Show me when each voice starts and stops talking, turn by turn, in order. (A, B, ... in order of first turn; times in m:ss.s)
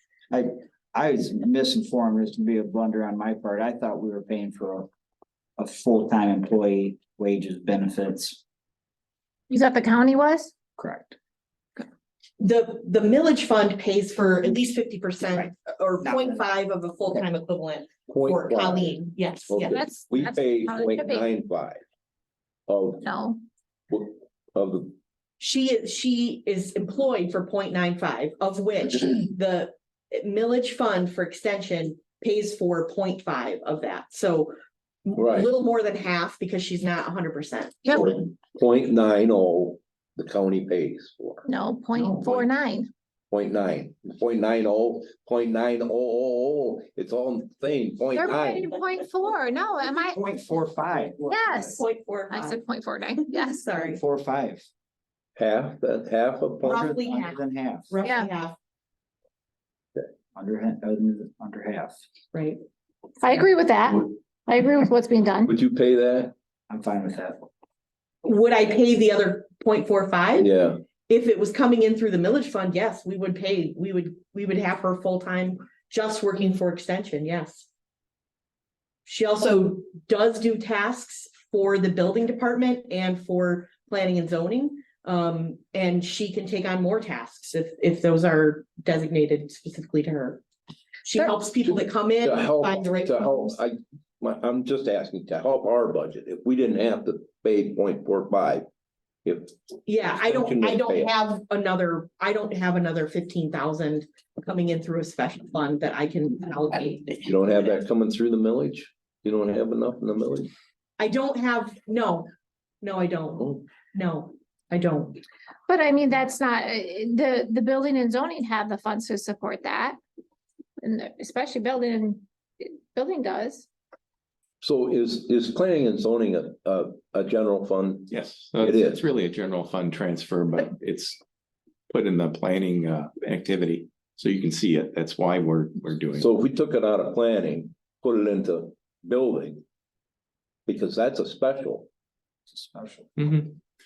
0:00.3-0:04.9 A
0:05.6-0:08.4 A
0:09.5-0:10.5 B
0:10.8-0:11.2 A
0:12.4-0:19.8 C
0:16.0-0:16.5 A
0:18.1-0:21.8 D
0:19.6-0:21.3 B
0:22.7-0:23.1 D
0:23.0-0:23.4 B
0:23.9-0:24.9 D
0:25.4-0:34.5 C
0:35.0-0:38.1 C
0:35.2-0:35.5 D
0:37.8-0:38.1 B
0:37.9-0:41.4 D
0:41.4-0:42.9 B
0:42.0-0:42.4 D
0:43.3-0:48.7 D
0:48.1-0:50.2 B
0:50.1-0:51.8 A
0:51.3-0:53.6 B
0:51.8-0:52.6 C
0:53.2-0:54.0 C
0:53.7-0:54.7 A
0:55.4-0:56.9 D
0:56.6-0:58.5 C
0:56.6-0:57.9 A
0:58.0-0:58.3 B
1:00.3-1:02.0 A
1:02.3-1:02.6 C
1:03.2-1:05.5 B
1:05.4-1:06.3 D
1:06.7-1:07.5 A
1:08.2-1:10.5 C
1:10.4-1:10.8 D
1:11.1-1:17.7 C
1:19.0-1:30.4 C
1:31.0-1:33.6 C
1:31.6-1:38.7 D
1:39.2-1:39.5 D
1:39.8-1:47.2 C
1:40.1-1:41.1 D
1:47.2-1:50.5 D
1:51.0-1:52.3 C
1:52.8-1:55.2 C
1:55.7-2:00.0 B
2:00.8-2:03.7 B
2:04.6-2:09.0 D
2:08.1-2:11.2 E
2:11.9-2:16.3 E
2:16.2-2:19.6 D
2:20.6-2:21.9 D
2:22.5-2:23.1 A
2:23.2-2:23.6 E